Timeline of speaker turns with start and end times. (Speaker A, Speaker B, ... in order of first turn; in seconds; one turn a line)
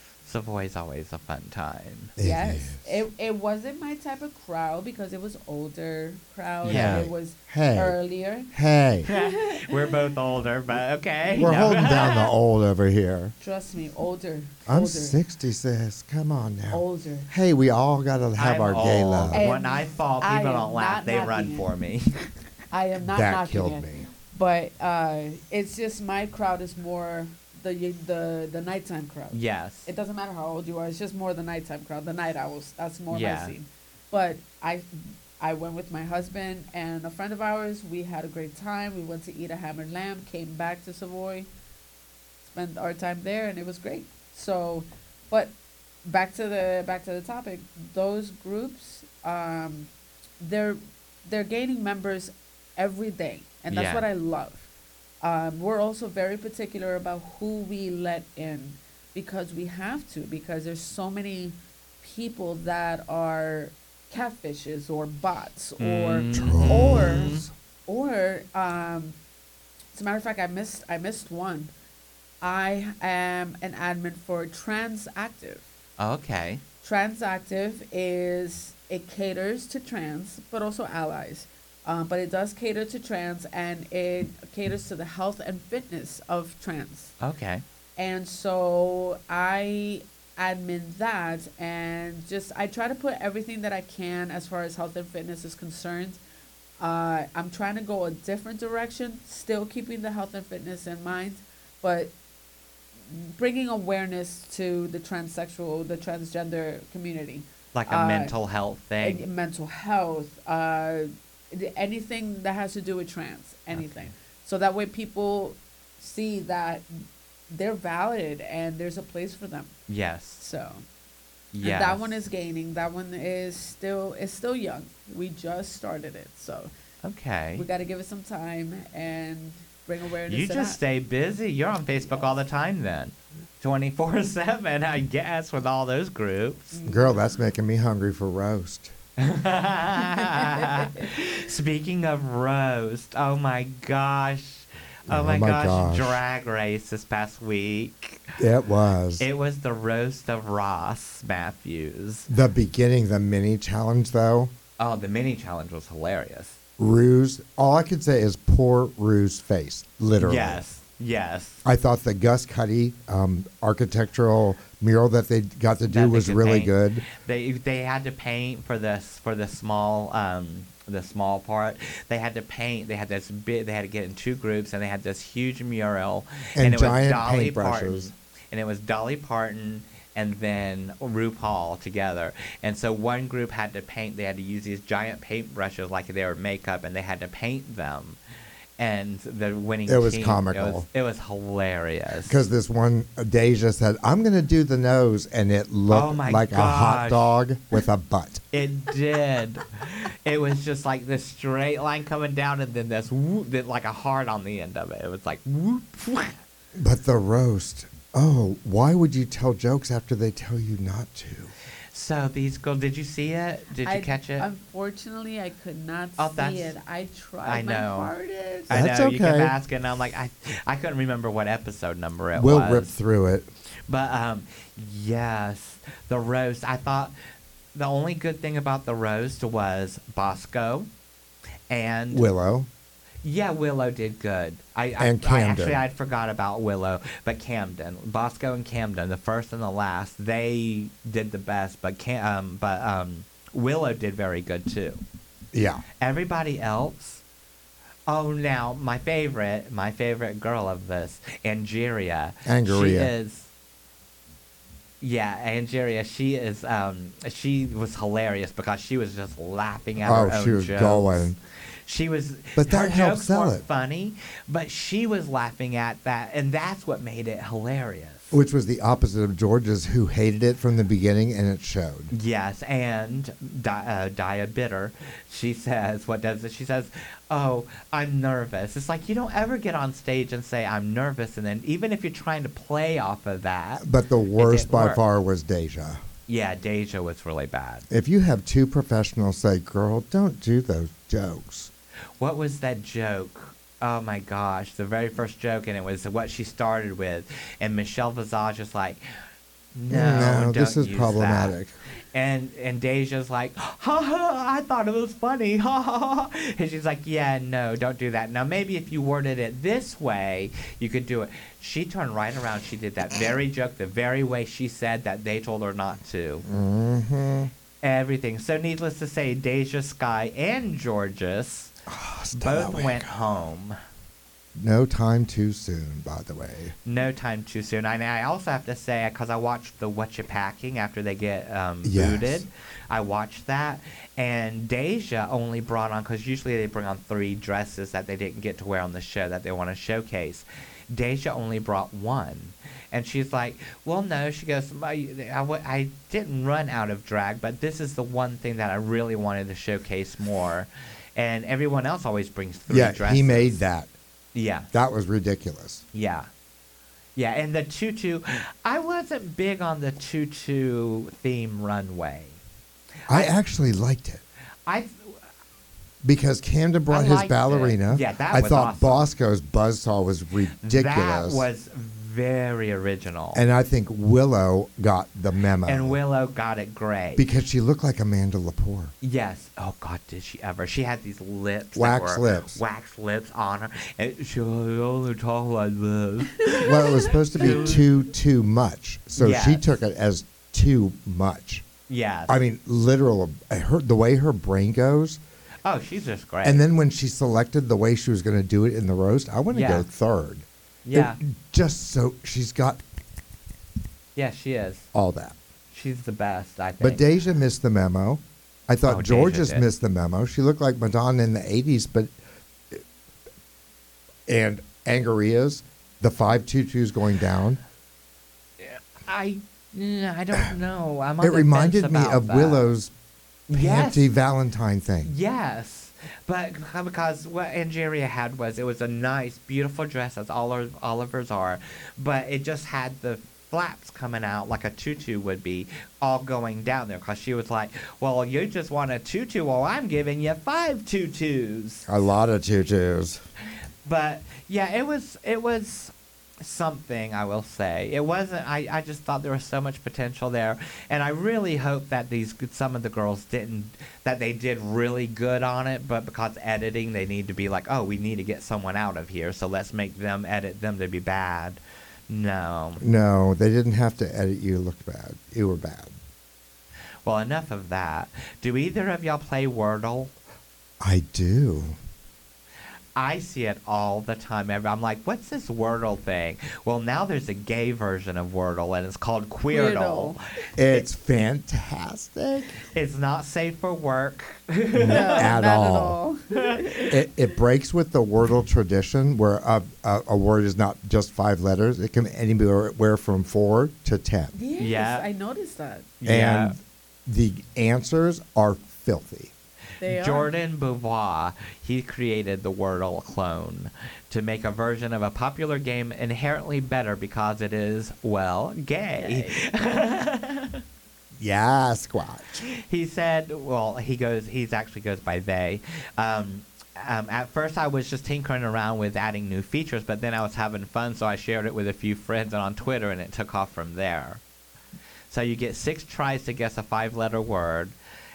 Speaker A: 0.2-2.1
Speaker B: 2.2-3.0
Speaker C: 2.2-8.5
Speaker B: 6.6-8.0
Speaker A: 6.6-7.1
Speaker B: 8.5-9.1
Speaker C: 9.0-10.1
Speaker A: 9.1-12.2
Speaker C: 11.2-12.3
Speaker B: 11.4-13.3
Speaker C: 13.4-15.2
Speaker B: 14.7-19.4
Speaker C: 16.7-17.3
Speaker A: 18.4-22.3
Speaker C: 19.3-21.6
Speaker C: 22.7-41.5
Speaker B: 23.1-24.1
Speaker A: 29.3-29.9
Speaker A: 33.1-33.5
Speaker C: 42.4-49.9
Speaker C: 50.4-54.7
Speaker A: 53.7-54.0
Speaker C: 55.2-69.2
Speaker A: 65.8-67.5
Speaker B: 66.3-67.5
Speaker C: 69.9-71.7
Speaker C: 72.4-75.7
Speaker A: 76.0-76.6
Speaker C: 76.8-87.1
Speaker A: 87.2-87.6
Speaker C: 88.0-96.2
Speaker C: 96.8-102.1
Speaker C: 103.1-108.3
Speaker A: 107.7-109.2
Speaker C: 109.0-119.7
Speaker A: 119.9-120.4
Speaker C: 120.4-120.8
Speaker A: 121.5-122.1
Speaker C: 121.6-126.7
Speaker A: 127.0-127.6
Speaker C: 127.5-130.8
Speaker A: 130.3-136.8
Speaker C: 136.7-137.2
Speaker B: 136.8-138.9
Speaker A: 139.2-148.4
Speaker C: 140.2-141.0
Speaker B: 145.1-146.2
Speaker B: 148.4-149.3
Speaker A: 149.2-152.3
Speaker B: 152.3-154.5
Speaker A: 154.8-156.6
Speaker B: 156.8-160.6
Speaker A: 160.2-161.6
Speaker B: 161.6-167.0
Speaker A: 165.9-188.2
Speaker B: 176.6-178.1
Speaker A: 188.8-192.3
Speaker B: 189.9-190.8
Speaker B: 192.2-198.4
Speaker A: 195.9-197.3
Speaker A: 198.5-206.3
Speaker B: 206.8-211.5
Speaker A: 211.9-214.5
Speaker C: 213.8-218.8
Speaker A: 216.2-216.7
Speaker A: 217.4-218.1
Speaker A: 218.7-222.9
Speaker B: 218.7-219.5
Speaker B: 222.3-223.5
Speaker A: 223.9-227.1
Speaker A: 227.7-230.9
Speaker A: 231.7-232.3
Speaker B: 232.1-232.7
Speaker A: 233.2-245.0
Speaker B: 235.0-235.8
Speaker B: 245.5-245.8
Speaker A: 246.0-247.2
Speaker A: 248.1-253.5
Speaker B: 252.4-253.1
Speaker A: 255.0-261.3
Speaker B: 260.0-261.4
Speaker A: 261.9-268.4
Speaker B: 262.6-263.6
Speaker B: 268.3-272.1
Speaker A: 272.1-285.0
Speaker B: 283.8-286.0
Speaker A: 286.3-287.8
Speaker B: 287.9-291.7
Speaker A: 292.2-299.0
Speaker A: 299.7-301.6
Speaker B: 299.9-301.7
Speaker A: 302.1-316.4
Speaker B: 316.4-317.5
Speaker A: 317.8-321.7
Speaker B: 321.9-323.1
Speaker A: 322.3-323.8
Speaker B: 324.5-326.7
Speaker A: 326.8-353.6
Speaker B: 331.8-332.4
Speaker B: 352.7-353.9
Speaker A: 354.3-354.7
Speaker B: 354.7-355.8
Speaker A: 355.9-356.3
Speaker A: 357.1-362.4
Speaker B: 363.1-364.2
Speaker A: 364.7-365.2
Speaker B: 366.0-371.4
Speaker A: 366.9-369.1
Speaker A: 370.6-373.4
Speaker B: 373.3-376.0
Speaker A: 375.6-377.3
Speaker B: 377.1-378.9
Speaker A: 379.0-387.9
Speaker B: 381.7-382.6
Speaker C: 386.4-387.6
Speaker B: 386.6-391.6
Speaker A: 389.2-389.6
Speaker A: 391.9-392.3
Speaker B: 392.3-395.2
Speaker A: 395.6-396.6
Speaker B: 396.4-402.8
Speaker A: 399.5-399.9
Speaker A: 400.8-401.2
Speaker A: 404.1-404.9
Speaker B: 404.9-405.4
Speaker A: 405.7-407.0
Speaker B: 406.8-412.1
Speaker A: 408.8-409.6
Speaker B: 414.3-417.6
Speaker A: 418.6-422.7
Speaker B: 421.2-422.9
Speaker A: 423.5-424.1
Speaker B: 423.5-425.1
Speaker A: 425.0-441.9
Speaker B: 441.9-443.2
Speaker A: 443.8-462.8
Speaker B: 462.8-465.9
Speaker A: 467.0-470.1
Speaker B: 470.8-471.8
Speaker A: 472.9-480.2
Speaker C: 479.5-480.2
Speaker B: 480.6-482.6
Speaker A: 482.7-485.3
Speaker B: 484.7-486.0
Speaker C: 484.9-486.9
Speaker B: 486.9-494.3
Speaker C: 494.3-495.9
Speaker A: 494.6-495.0
Speaker A: 496.0-496.5
Speaker B: 496.0-499.3
Speaker C: 499.8-500.3
Speaker A: 499.8-510.6
Speaker C: 509.0-509.4
Speaker B: 511.2-512.4
Speaker A: 512.5-524.2
Speaker A: 525.1-527.7